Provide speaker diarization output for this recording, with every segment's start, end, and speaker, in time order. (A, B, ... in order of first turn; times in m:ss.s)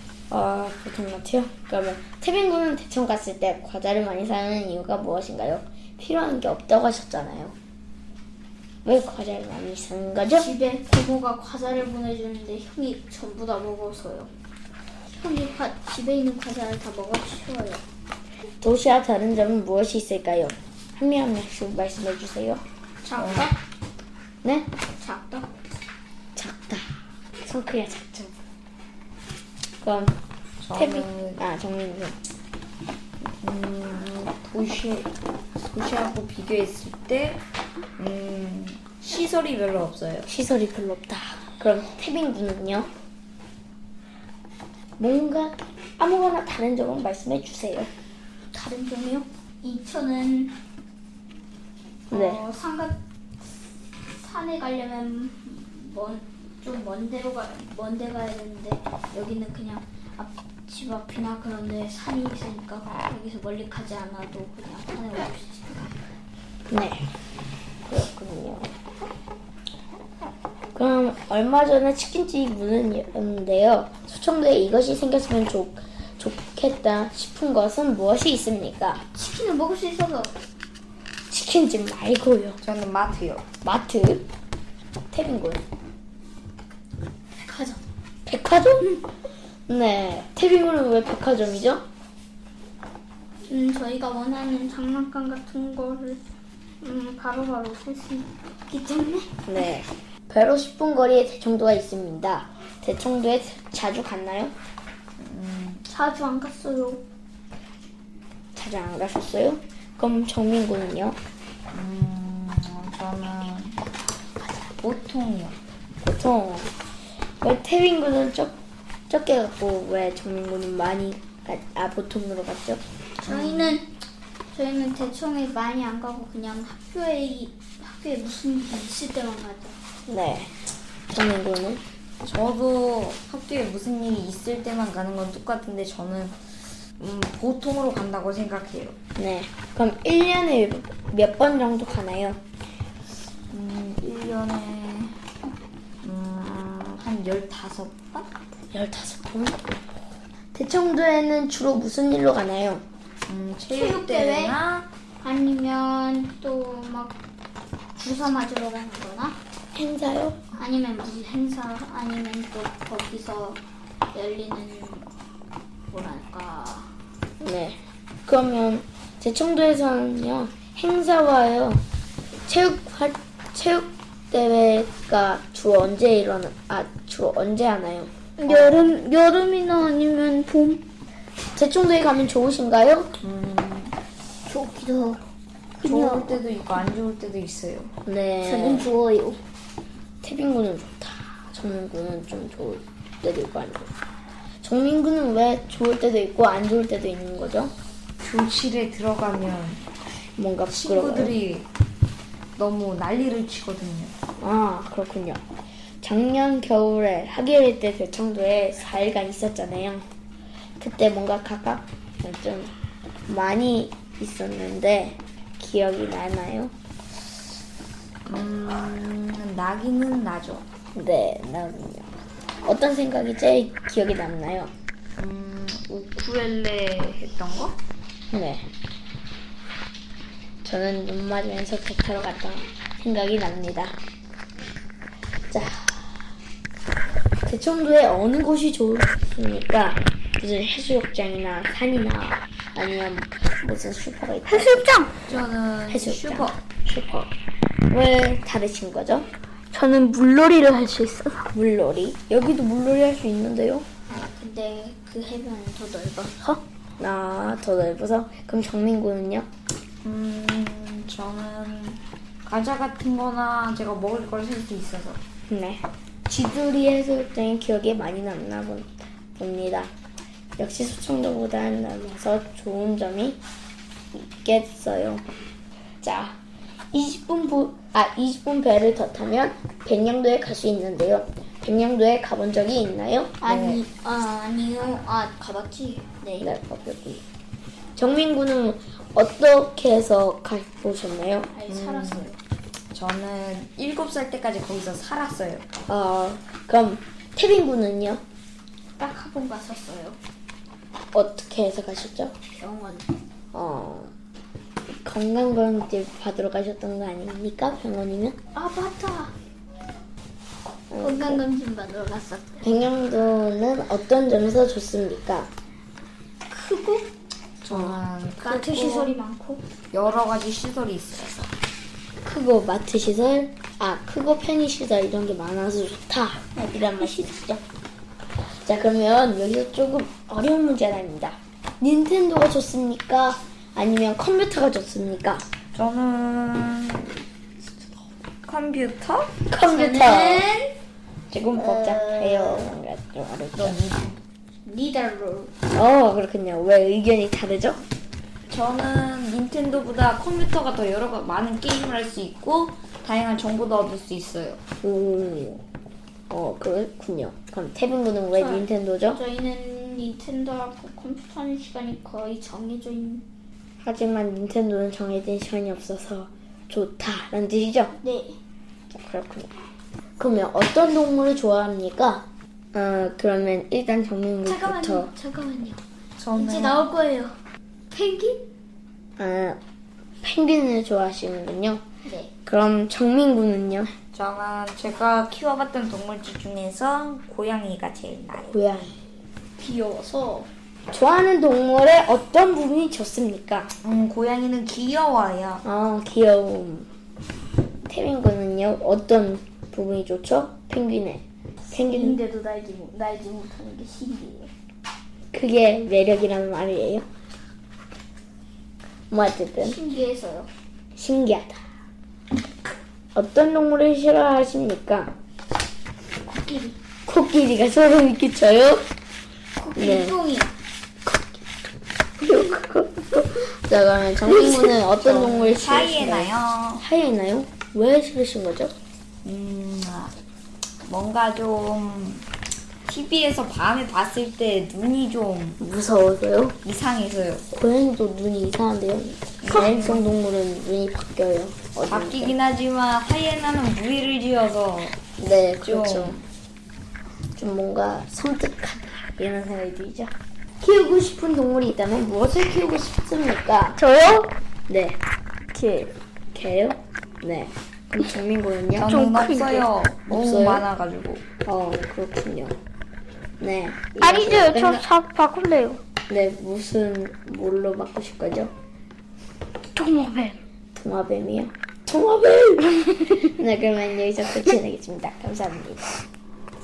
0:00.3-0:07.6 A
0:08.8-0:10.5 A
0:10.4-0:14.3 B
0:15.1-0:17.8 B
0:18.6-0:22.6 A
0:23.0-0:23.6 B
0:23.2-0:23.5 C
0:24.4-0:24.7 A
0:25.0-0:25.5 B
0:26.4-0:26.9 A
0:27.4-0:28.4 A
0:29.8-0:30.2 A
0:30.6-0:31.4 C
0:30.7-0:32.2 A
0:33.2-0:37.4 C
0:38.0-0:40.3 C
0:40.3-0:42.9 A
0:45.0-0:47.9 A
0:48.5-0:50.6 B
0:52.1-0:53.0 B
0:52.1-0:52.4 A
0:54.1-1:06.0 B
1:06.7-1:07.1 A
1:07.9-1:08.7 A
1:10.8-1:19.0 A
1:19.1-1:20.3 B
1:21.3-1:22.6 A
1:22.6-1:23.5 C
1:23.6-1:24.3 A
1:25.1-1:25.6 A
1:27.4-1:27.8 B
1:28.3-1:29.0 A
1:29.7-1:31.8 A
1:33.5-1:36.2 B
1:36.8-1:39.4 B
1:39.4-1:44.5 A
1:45.2-1:45.8 C
1:45.9-1:47.0 B
1:48.6-1:51.2 A
1:51.7-1:53.8 C
1:54.8-1:55.6 C
1:56.0-1:56.7 A
1:57.4-1:58.6 A
1:59.1-2:02.8 A
2:03.2-2:03.9 B
2:03.3-2:03.8 C
2:04.5-2:09.8 B
2:10.1-2:10.6 A
2:11.1-2:11.8 A
2:12.2-2:16.4 C
2:17.0-2:19.0 C
2:19.2-2:22.4 A
2:23.5-2:25.2 C
2:26.0-2:28.3 C
2:28.7-2:29.7 A
2:30.5-2:32.8 A
2:33.3-2:34.9 C
2:33.7-2:34.6 B
2:35.2-2:37.2 B
2:38.0-2:39.4 B
2:39.7-2:40.4 A
2:40.6-2:43.6 B
2:44.1-2:45.1 B
2:45.9-2:46.9 B
2:47.4-2:51.8 A
2:52.5-2:59.0 A
2:58.4-3:00.9 B
3:01.6-3:03.2 A
3:03.2-3:04.0 C
3:04.4-3:05.2 B
3:05.8-3:06.4 B
3:05.8-3:07.9 C
3:08.0-3:08.9 A
3:08.4-3:09.4 B
3:10.2-3:13.9 A
3:14.6-3:17.7 A
3:18.2-3:19.9 C
3:20.4-3:21.4 A
3:20.7-3:21.7 C
3:22.6-3:24.1 C
3:24.4-3:25.4 A
3:26.0-3:30.1 A
3:30.8-3:32.7 A
3:33.3-3:36.7 A
3:38.3-3:40.6 C
3:40.9-3:42.1 A
3:42.6-3:44.7 A
3:45.2-3:47.8 C
3:48.3-3:48.7 A
3:50.6-3:54.0 A
3:55.5-3:56.1 A
3:57.4-4:04.9 A
4:04.5-4:05.2 B
4:05.3-4:06.6 C
4:05.9-4:07.3 A
4:07.9-4:09.3 A
4:09.7-4:11.5 B
4:11.5-4:13.9 A
4:14.1-4:16.6 B
4:17.0-4:19.5 A
4:20.0-4:25.2 C
4:25.5-4:29.9 A
4:30.6-4:33.4 A
4:34.1-4:35.2 A
4:36.0-4:36.4 A
4:36.9-4:43.4 A
4:43.4-4:46.5 B
4:43.4-4:43.8 C
4:46.4-4:47.2 A
4:48.0-4:51.5 A
4:51.5-4:52.4 B
4:51.7-4:52.3 C
4:52.9-4:55.7 C
4:55.9-4:58.2 A
4:59.0-5:00.2 B
5:01.1-5:02.4 A
5:02.6-5:03.1 B
5:03.5-5:04.1 A
5:04.9-5:08.4 A
5:08.5-5:09.3 B
5:10.9-5:11.4 A
5:11.0-5:12.8 B
5:12.6-5:15.5 A
5:16.5-5:17.1 B
5:17.6-5:19.1 C
5:17.7-5:18.0 A
5:18.4-5:19.6 B
5:19.9-5:21.5 C
5:22.2-5:27.4 A
5:26.6-5:27.6 B
5:28.6-5:35.4 A
5:35.8-5:37.2 C
5:38.5-5:39.4 C
5:39.5-5:40.5 A
5:39.6-5:40.8 B
5:41.3-5:41.6 C
5:41.4-5:43.8 A
5:41.6-5:42.7 B
5:43.6-5:44.2 C
5:44.6-5:45.5 B
5:45.7-5:47.8 A
5:48.5-5:54.6 C
5:54.8-5:55.6 A
5:56.3-5:59.2 A
5:58.3-6:03.2 B
6:03.8-6:08.0 A
6:08.0-6:08.4 B
6:08.9-6:09.5 A
6:10.2-6:15.1 A
6:14.4-6:15.8 B
6:16.2-6:16.9 C
6:16.4-6:17.4 B
6:17.9-6:18.4 B
6:19.2-6:19.6 A
6:20.2-6:21.8 A
6:22.0-6:22.3 B
6:22.4-6:23.9 A
6:24.1-6:28.6 C
6:28.5-6:29.0 A
6:29.6-6:30.5 B
6:30.9-6:33.7 A
6:33.8-6:35.6 C
6:35.6-6:36.9 A
6:37.9-6:42.2 A
6:41.7-6:44.5 B
6:45.3-6:47.0 A
6:49.1-6:49.8 A
6:49.6-6:50.5 B
6:51.0-6:51.6 A
6:53.1-6:55.1 A
6:56.2-6:56.8 B
6:57.0-6:58.8 A
6:59.6-7:00.6 B
6:59.8-7:00.2 A
7:01.1-7:01.4 A
7:02.2-7:08.7 A
7:05.0-7:06.8 C
7:09.2-7:10.1 C
7:10.9-7:12.3 C
7:12.9-7:15.6 C
7:15.6-7:16.6 A
7:16.6-7:17.4 C
7:17.5-7:22.4 A
7:19.4-7:20.2 C
7:21.8-7:25.0 C
7:25.2-7:26.2 A
7:25.6-7:26.2 C
7:27.4-7:33.8 A
7:33.8-7:34.4 B
7:34.7-7:35.0 A
7:35.5-7:35.9 B
7:36.3-7:39.0 A
7:38.8-7:41.2 C
7:38.8-7:39.7 B
7:40.1-7:40.6 A
7:41.4-7:42.6 A
7:43.4-7:44.9 A
7:44.0-7:45.8 B
7:46.1-7:48.5 A
7:49.8-7:50.4 B
7:50.8-7:55.9 A
7:53.0-7:53.2 B